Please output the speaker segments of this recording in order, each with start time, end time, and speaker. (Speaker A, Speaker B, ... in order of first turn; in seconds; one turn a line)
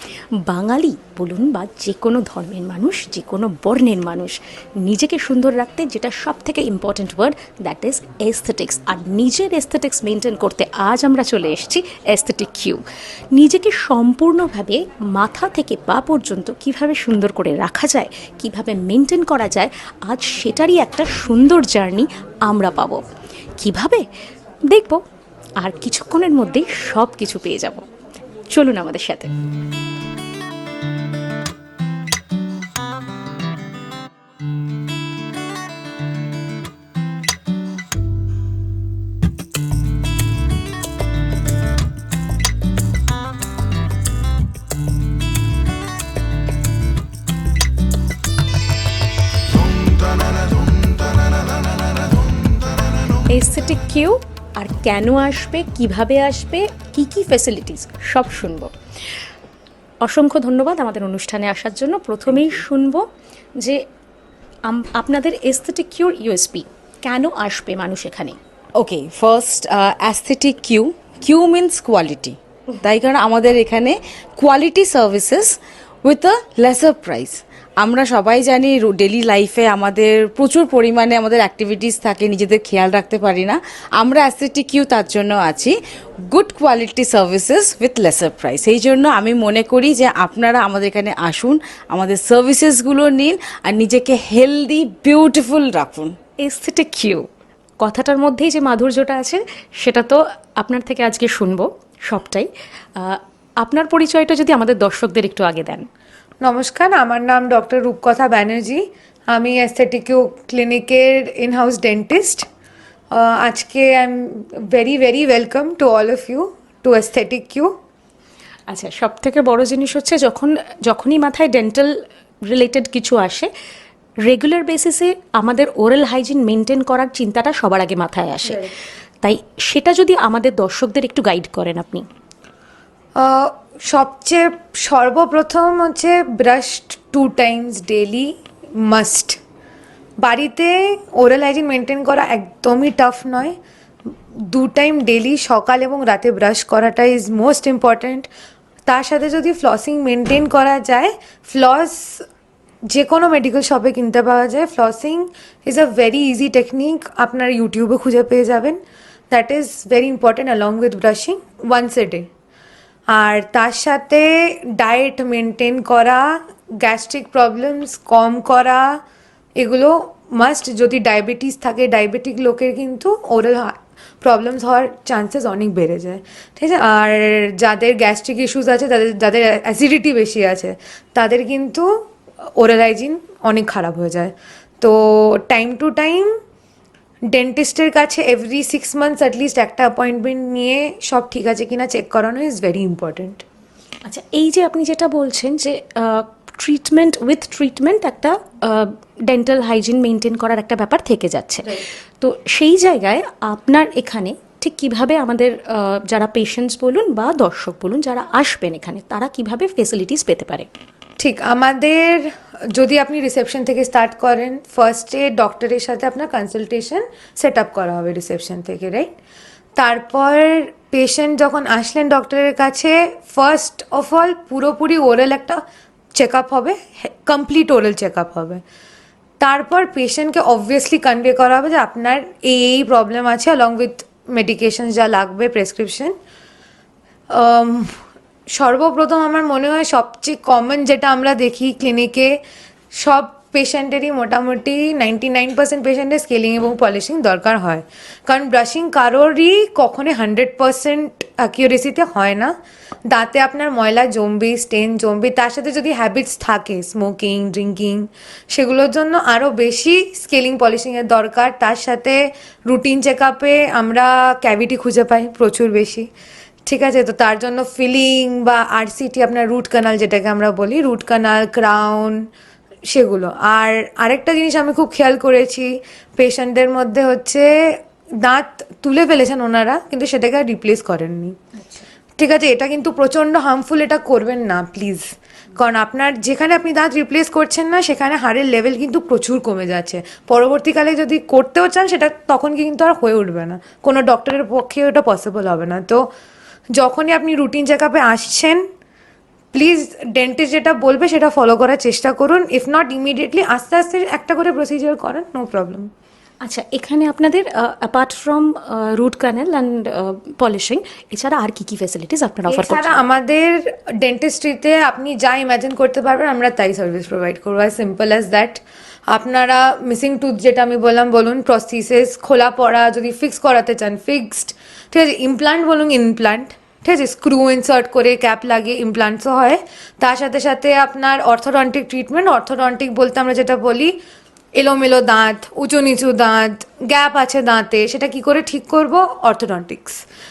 Speaker A: 0.5-12.8
Speaker A: 13.3-23.0
Speaker A: 23.6-24.0
Speaker A: 24.7-25.0
Speaker A: 25.6-27.8
Speaker A: 28.5-29.3
Speaker A: 53.3-58.7
Speaker A: 60.0-63.1
Speaker A: 63.6-63.8
Speaker A: 64.7-68.4
Speaker B: 68.8-85.8
Speaker B: 86.3-96.2
Speaker A: 96.4-97.3
Speaker A: 97.8-105.9
Speaker C: 106.4-112.5
Speaker C: 113.1-117.8
Speaker A: 118.7-123.5
Speaker A: 124.2-128.7
Speaker C: 128.4-128.7
Speaker A: 129.2-132.1
Speaker C: 133.2-139.4
Speaker C: 140.2-143.6
Speaker C: 144.4-148.3
Speaker C: 148.9-152.3
Speaker C: 152.9-158.8
Speaker C: 159.3-162.3
Speaker C: 163.1-169.0
Speaker C: 169.6-186.4
Speaker C: 187.3-193.4
Speaker A: 194.1-210.7
Speaker C: 211.2-219.1
Speaker C: 219.8-225.6
Speaker C: 226.1-228.6
Speaker C: 229.4-236.2
Speaker C: 237.3-238.0
Speaker C: 238.5-242.4
Speaker C: 242.9-252.6
Speaker C: 253.1-266.1
Speaker C: 266.7-272.3
Speaker C: 272.9-281.4
Speaker A: 281.6-281.9
Speaker C: 282.2-296.1
Speaker C: 296.7-298.7
Speaker C: 299.5-305.9
Speaker A: 306.4-313.0
Speaker C: 312.5-334.0
Speaker C: 334.6-340.0